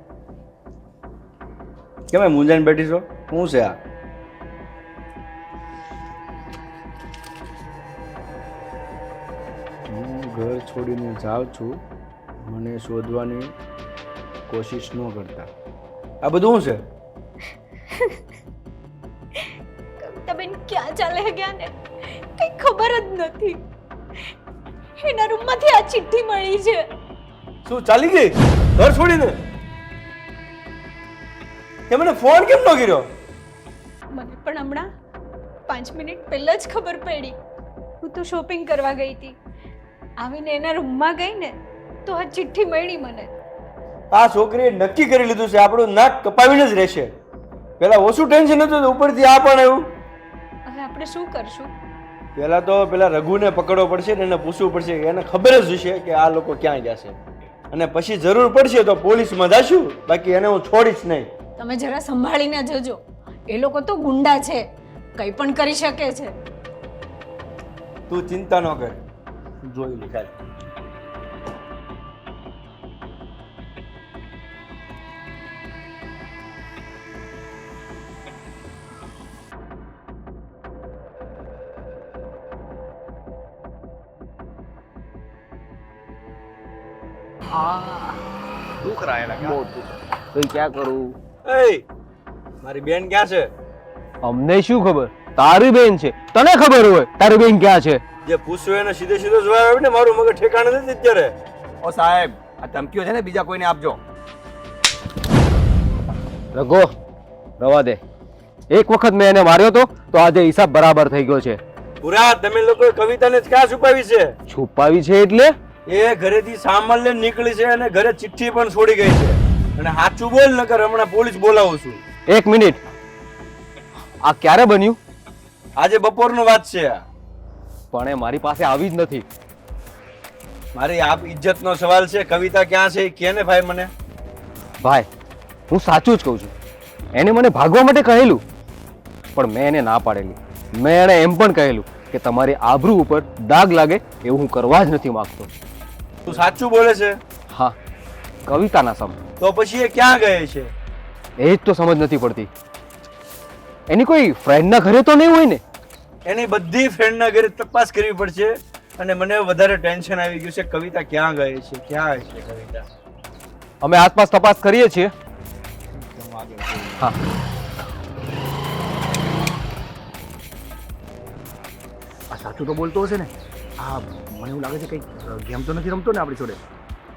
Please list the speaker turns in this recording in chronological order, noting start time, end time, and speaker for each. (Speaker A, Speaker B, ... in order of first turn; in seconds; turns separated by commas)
Speaker A: 2.1-3.7, Speaker A: 9.9-11.8, Speaker A: 12.4-13.5, Speaker A: 14.5-15.5, Speaker A: 16.2-16.8, Speaker B: 20.0-23.6, Speaker B: 25.0-26.9, Speaker A: 27.6-29.4, Speaker A: 31.9-33.0, Speaker B: 34.1-34.9, Speaker B: 35.7-37.4, Speaker B: 38.0-39.4, Speaker B: 40.2-43.3, Speaker A: 44.1-47.1, Speaker A: 47.8-49.8, Speaker B: 50.7-51.7, Speaker A: 52.4-57.1, Speaker A: 57.7-61.3, Speaker B: 61.6-64.6, Speaker B: 65.2-66.3, Speaker A: 68.1-69.0, Speaker A: 69.6-70.3, Speaker C: 87.6-88.0, Speaker C: 89.5-91.1, Speaker A: 91.5-91.8, Speaker A: 92.6-93.5, Speaker C: 94.2-98.0, Speaker A: 98.2-104.0, Speaker C: 106.5-106.9, Speaker C: 107.6-108.0, Speaker C: 108.7-111.6, Speaker A: 112.0-114.3, Speaker C: 114.5-115.5, Speaker A: 115.9-122.0, Speaker C: 122.3-122.8, Speaker C: 124.2-125.0, Speaker A: 125.8-127.0, Speaker C: 127.9-129.2, Speaker A: 130.7-133.9, Speaker C: 134.8-135.1, Speaker C: 135.7-136.5, Speaker C: 137.1-138.4, Speaker C: 139.3-145.5, Speaker A: 146.2-147.2, Speaker C: 147.5-147.7, Speaker C: 148.4-149.2, Speaker A: 149.4-150.7, Speaker C: 151.4-152.5, Speaker C: 153.9-155.6, Speaker A: 156.2-162.8, Speaker C: 163.8-165.1, Speaker D: 172.4-173.3, Speaker D: 173.8-176.6